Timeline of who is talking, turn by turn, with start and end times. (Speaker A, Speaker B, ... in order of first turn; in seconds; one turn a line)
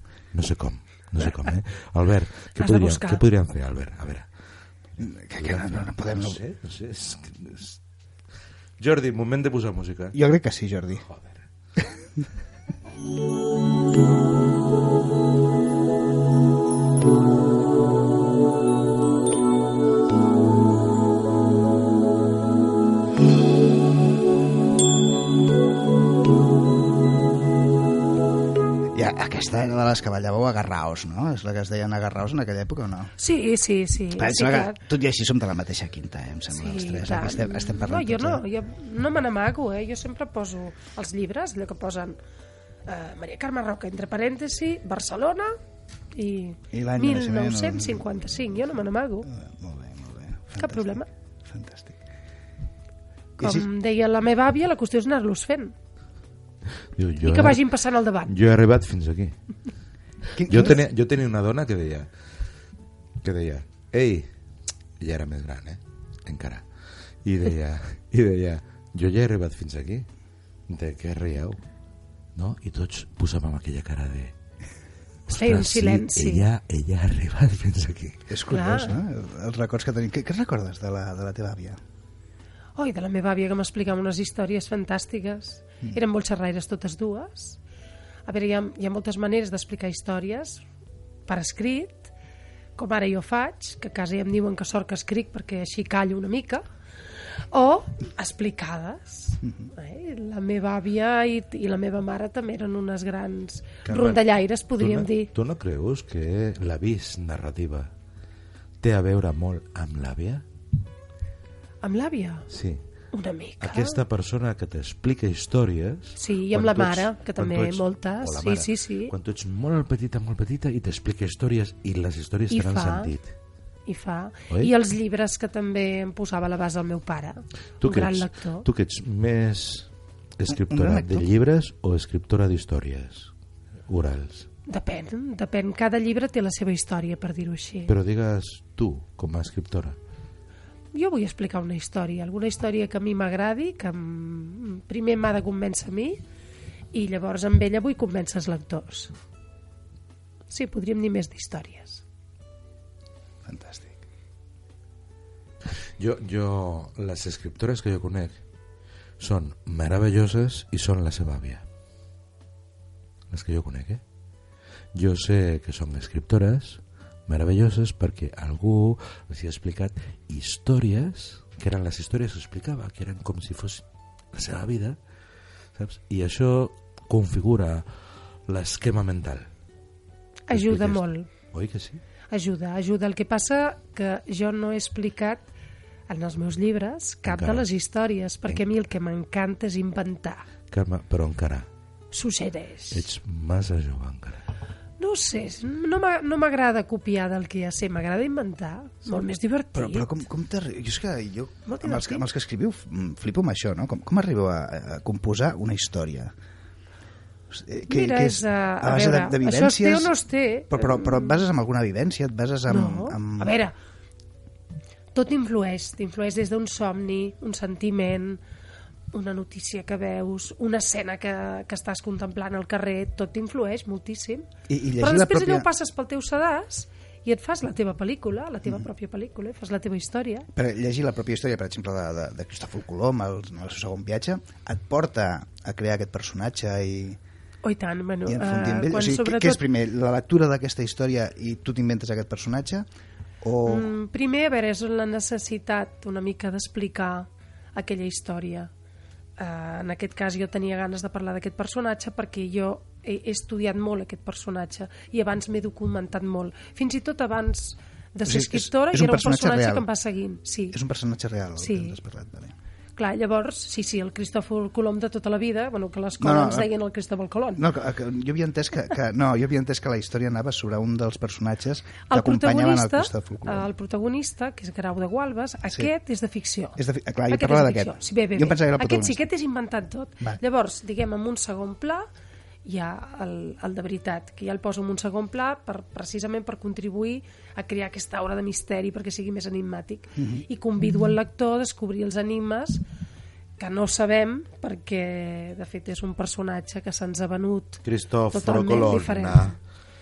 Speaker A: 0.3-4.3
Speaker B: 2.5-3.2
Speaker C: 5.0-6.4
Speaker A: 5.4-7.8
Speaker A: 8.8-10.2
Speaker C: 10.1-11.1
Speaker A: 11.1-11.4
Speaker C: 28.9-33.1
Speaker B: 33.2-34.8
Speaker C: 34.1-38.4
Speaker B: 36.5-42.2
Speaker B: 42.9-45.5
Speaker B: 46.1-49.3
Speaker C: 46.7-48.1
Speaker C: 49.3-52.0
Speaker B: 50.6-51.1
Speaker C: 53.4-53.7
Speaker B: 53.4-55.7
Speaker A: 57.0-57.6
Speaker B: 57.2-58.3
Speaker A: 58.2-59.4
Speaker C: 60.4-60.8
Speaker A: 60.5-62.1
Speaker A: 63.2-64.3
Speaker A: 65.0-66.7
Speaker A: 67.2-70.1
Speaker A: 70.7-71.6
Speaker A: 72.4-74.3
Speaker A: 75.3-78.2
Speaker B: 75.3-76.5
Speaker C: 78.3-81.8
Speaker B: 78.5-79.0
Speaker B: 82.8-87.6
Speaker B: 88.3-90.6
Speaker B: 91.3-92.1
Speaker B: 92.8-96.7
Speaker B: 97.5-105.3
Speaker A: 103.8-104.2
Speaker A: 104.8-107.9
Speaker A: 108.8-110.4
Speaker B: 111.8-112.5
Speaker A: 112.5-112.8
Speaker B: 113.1-114.0
Speaker A: 113.6-123.3
Speaker B: 116.2-119.1
Speaker B: 122.5-123.1
Speaker B: 123.9-128.7
Speaker A: 127.8-133.3
Speaker C: 130.5-131.3
Speaker A: 133.9-134.5
Speaker B: 134.7-137.9
Speaker A: 137.9-140.0
Speaker B: 140.9-146.2
Speaker B: 146.9-149.1
Speaker B: 150.5-152.0
Speaker C: 153.4-153.9
Speaker A: 156.0-158.4
Speaker A: 159.2-161.6
Speaker A: 163.3-164.0
Speaker A: 164.9-175.0
Speaker A: 175.8-177.9
Speaker A: 178.5-179.5
Speaker B: 180.5-181.3
Speaker A: 180.5-182.0
Speaker B: 182.3-185.5
Speaker B: 186.1-190.5
Speaker A: 187.3-187.7
Speaker A: 190.7-191.7
Speaker B: 192.1-193.1
Speaker A: 192.9-194.4
Speaker B: 195.0-200.2
Speaker C: 199.8-206.3
Speaker B: 201.7-202.3
Speaker C: 207.5-210.1
Speaker B: 207.9-211.4
Speaker C: 210.7-213.6
Speaker B: 212.7-213.7
Speaker B: 215.2-218.4
Speaker B: 219.1-224.5
Speaker C: 224.7-225.7
Speaker B: 225.0-230.5
Speaker C: 230.5-237.2
Speaker B: 237.6-239.6
Speaker C: 238.3-242.9
Speaker C: 243.4-243.9
Speaker B: 243.7-248.7
Speaker B: 249.4-260.8
Speaker C: 258.2-259.9
Speaker C: 260.7-262.5
Speaker B: 261.6-262.0
Speaker B: 263.0-267.6
Speaker C: 266.2-266.7
Speaker C: 267.6-273.7
Speaker B: 272.1-276.8
Speaker C: 276.8-279.3
Speaker B: 277.3-282.1
Speaker B: 282.7-292.8
Speaker C: 290.2-290.4
Speaker B: 293.6-299.6
Speaker A: 297.8-299.6